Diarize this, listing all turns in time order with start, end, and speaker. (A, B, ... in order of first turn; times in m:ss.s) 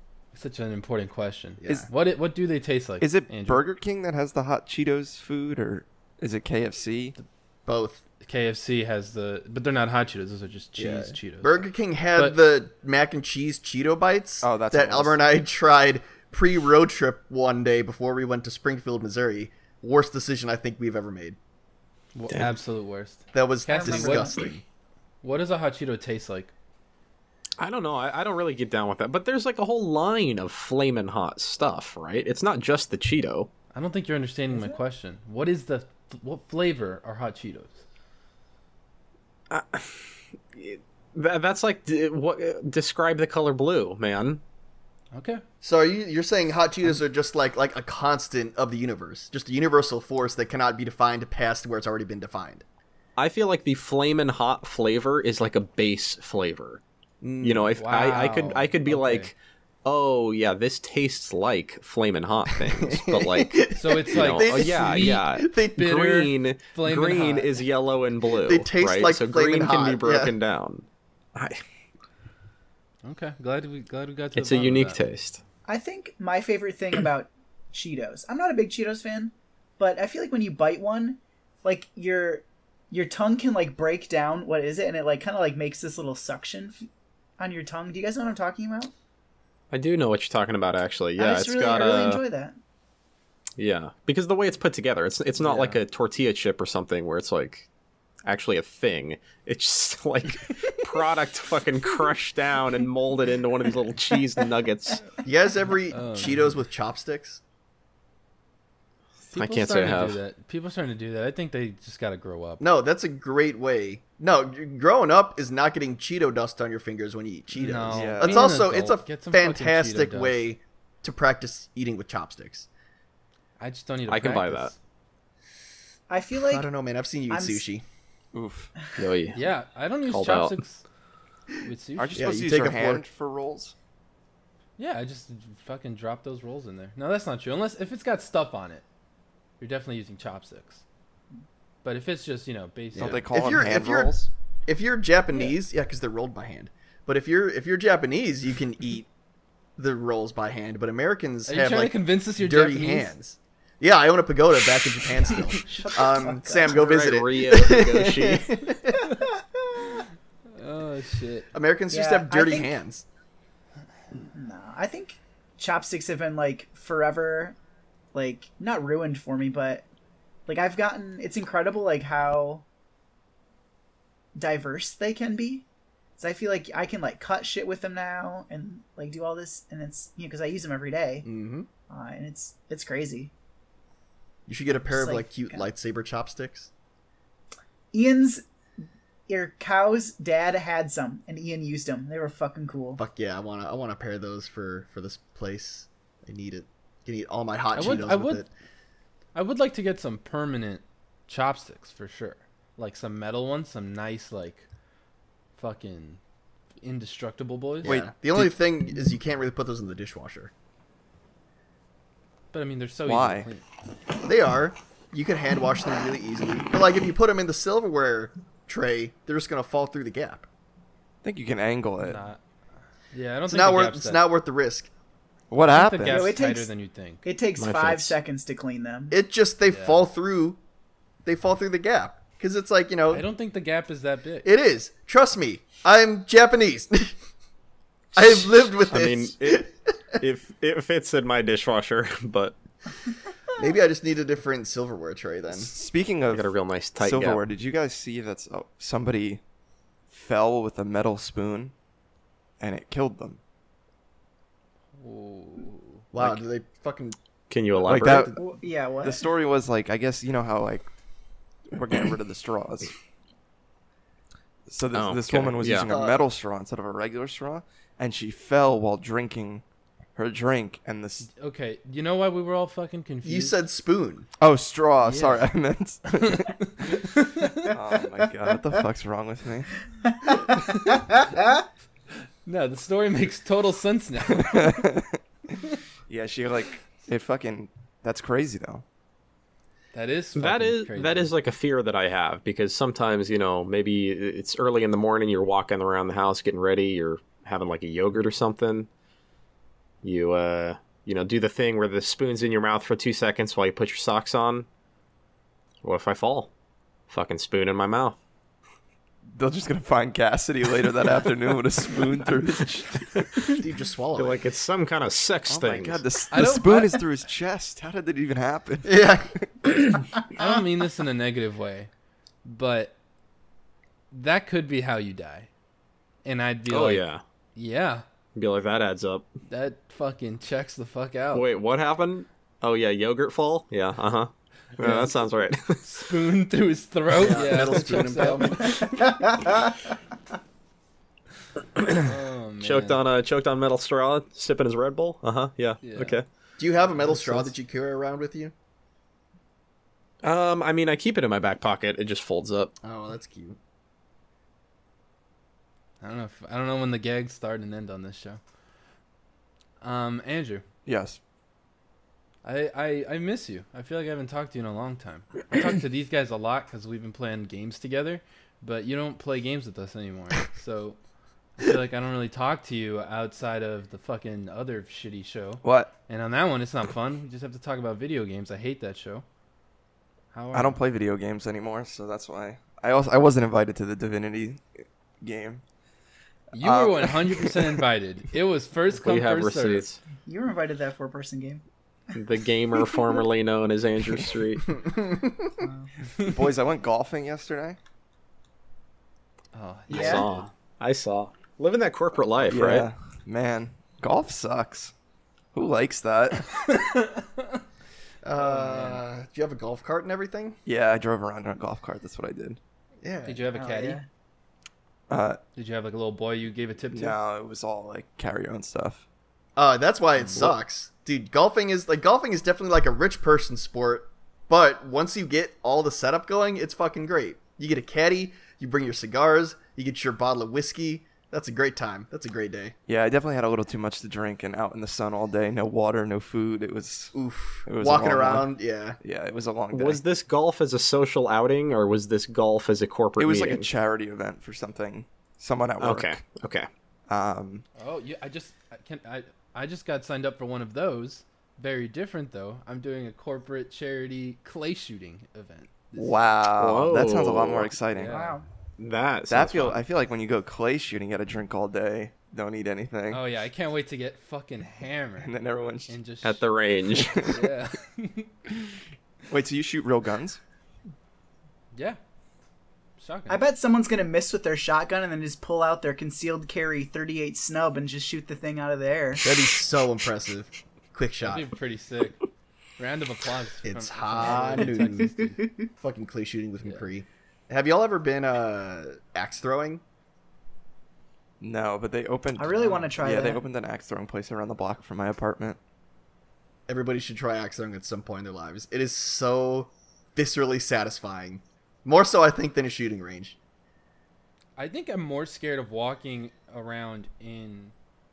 0:00.3-0:03.6 A
0:01.6-0:01.9 B
0:03.0-0:07.1 C
0:07.6-0:08.0 B
0:08.2-0:12.4 A
0:10.8-0:21.4 B
0:14.4-0:15.2 C
0:22.1-0:24.4 A
0:23.3-0:24.6 B
0:23.7-0:24.5 D
0:25.2-0:26.5 A
0:27.6-0:33.5 E
0:33.7-0:37.8 A
0:39.5-0:44.4 E
0:45.1-0:45.4 A
0:45.6-0:52.6 B
0:53.2-0:56.8 E
0:57.2-0:57.7 B
0:57.4-1:11.6 E
0:57.8-0:59.3 A
1:02.6-1:06.1 B
1:03.8-1:07.6 A
1:08.4-1:10.4 B
1:13.0-1:15.0 A
1:14.4-1:15.4 E
1:15.7-1:28.9 D
1:29.7-1:32.2 E
1:31.2-1:32.6 D
1:33.6-1:37.7 E
1:35.4-1:35.8 A
1:38.3-1:45.1 E
1:45.2-1:47.4 B
1:45.9-1:46.6 A
1:49.3-1:52.6 A
1:49.4-1:50.2 E
1:52.6-2:02.7 B
1:57.6-2:00.5 A
1:57.9-1:58.6 C
2:03.6-2:04.8 A
2:04.1-2:04.7 E
2:06.1-2:06.7 D
2:06.4-2:07.8 B
2:07.3-2:07.6 D
2:08.3-2:08.7 C
2:09.0-2:09.4 E
2:09.3-2:10.8 A
2:10.1-2:10.6 E
2:11.6-2:12.3 A
2:12.0-2:13.7 C
2:12.1-2:13.0 B
2:14.8-2:18.8 A
2:19.6-2:20.8 A
2:21.8-2:23.3 A
2:23.0-2:24.3 C
2:23.0-2:29.1 B
2:29.8-2:39.1 B
2:31.4-2:33.1 A
2:35.3-2:36.8 D
2:36.7-2:38.6 E
2:40.6-2:41.5 A
2:41.5-2:43.0 B
2:41.9-2:42.7 D
2:44.3-2:47.6 D
2:48.1-2:49.9 D
2:50.5-2:52.6 D
2:54.4-2:55.6 D
2:56.2-3:01.3 D
3:01.2-3:01.7 B
3:01.9-3:03.3 D
3:04.5-3:06.7 B
3:04.8-3:05.6 D
3:07.9-3:08.4 D
3:09.3-3:13.0 D
3:13.0-3:18.5 B
3:17.7-3:18.4 A
3:19.4-3:24.6 A
3:25.6-3:26.2 A
3:26.8-3:28.0 A
3:27.8-3:28.5 C
3:27.8-3:30.5 B
3:32.5-3:33.6 A
3:33.1-3:33.5 C
3:34.2-3:40.4 B
3:41.2-3:42.2 C
3:42.0-3:42.4 A
3:43.1-3:44.2 A
3:43.5-3:44.9 B
3:45.5-3:46.3 C
3:45.6-3:47.2 A
3:46.1-3:46.7 D
3:47.2-3:49.2 D
3:47.6-3:48.1 E
3:49.1-3:50.6 B
3:49.7-3:50.0 A
3:51.2-3:53.3 B
3:53.1-3:54.5 A
3:54.4-3:57.1 B
3:58.1-3:59.7 B
3:58.2-4:02.6 E
4:03.6-4:05.7 B
4:05.5-4:09.4 C
4:06.3-4:07.4 E
4:10.1-4:11.7 C
4:12.6-4:13.4 C
4:15.0-4:16.1 A
4:16.1-4:17.2 B
4:17.5-4:18.3 E
4:17.8-4:18.4 B
4:17.9-4:18.4 C
4:18.4-4:19.3 D
4:19.0-4:20.9 C
4:21.7-4:22.9 C
4:24.7-4:29.6 C
4:24.9-4:25.9 E
4:25.9-4:26.3 B
4:30.2-4:31.3 C
4:31.2-4:33.6 A
4:33.2-4:34.3 B
4:34.4-4:37.0 C
4:35.0-4:35.5 A
4:36.2-4:37.7 A
4:37.6-4:39.7 C
4:40.3-4:41.2 D
4:42.4-4:44.9 A
4:44.3-4:45.2 C
4:46.1-4:48.8 C
4:49.9-4:51.3 A
4:50.4-4:58.9 E
5:00.0-5:04.6 E
5:05.8-5:06.5 E
5:07.1-5:08.2 E
5:09.4-5:13.3 C
5:13.6-5:14.4 B
5:14.1-5:16.0 E
5:15.5-5:19.9 C
5:16.3-5:17.0 A
5:18.8-5:19.3 B
5:20.4-5:21.9 A
5:22.4-5:22.9 A
5:24.1-5:25.5 A
5:26.2-5:28.0 A
5:26.7-5:27.2 E
5:28.4-5:29.3 E
5:29.5-5:31.4 A
5:31.3-5:35.8 E
5:34.8-5:35.1 A
5:35.8-5:38.9 A
5:37.2-5:38.9 B
5:42.0-5:43.0 A
5:42.6-5:46.2 E
5:45.8-5:46.2 A
5:46.6-5:48.5 B
5:46.9-5:47.5 A
5:50.2-5:52.7 E
5:52.8-5:53.6 B
5:56.0-5:58.4 A
5:59.8-6:00.6 A
6:00.9-6:01.2 C
6:02.4-6:11.0 A
6:11.6-6:19.2 A
6:15.6-6:15.9 C
6:20.3-6:20.8 A
6:20.5-6:24.6 C
6:25.2-6:25.6 C
6:26.5-6:29.9 A
6:26.6-6:27.8 C
6:28.9-6:30.0 E
6:30.3-6:31.6 D
6:32.1-6:34.7 E
6:34.8-6:35.6 B
6:35.6-6:35.9 D
6:36.2-6:37.8 C
6:39.5-6:40.4 A
6:39.9-6:40.3 D
6:39.9-6:42.9 E
6:42.5-6:44.9 C
6:45.5-6:46.6 C
6:46.5-6:47.6 A
6:48.2-6:50.6 B
6:48.4-6:49.0 A
6:50.6-6:52.6 C
6:53.0-6:53.4 B
6:53.2-6:54.0 A
6:53.5-6:54.0 D
6:55.1-6:55.4 C
6:55.6-6:57.2 A
6:56.9-6:59.0 C
6:59.6-7:12.8 B
7:12.9-7:17.1 C
7:17.1-7:19.0 B
7:17.6-7:20.0 C
7:19.7-7:23.7 E
7:23.2-7:26.2 C
7:25.8-7:26.7 E
7:27.1-7:27.6 C
7:27.8-7:36.2 A
7:36.0-7:38.1 C
7:36.6-7:37.7 E
7:37.9-7:38.4 A
7:38.1-7:38.4 D
7:38.8-7:39.8 E
7:39.3-7:43.2 C
7:43.1-7:45.3 A
7:45.2-7:45.9 C
7:45.9-7:46.4 A
7:46.2-7:47.3 E
7:47.0-7:47.4 C
7:47.2-7:48.3 A
7:49.3-7:50.4 C
7:51.7-7:52.0 A
7:53.0-7:53.4 A
7:53.3-7:59.2 D
7:59.2-8:01.5 B
8:01.2-8:02.2 A
8:02.8-8:05.5 A
8:03.6-8:05.1 B
8:04.3-8:05.7 D
8:05.8-8:09.8 B
8:11.4-8:15.6 C
8:12.4-8:13.4 D
8:12.6-8:12.9 A
8:16.7-8:23.4 B
8:24.6-8:27.7 A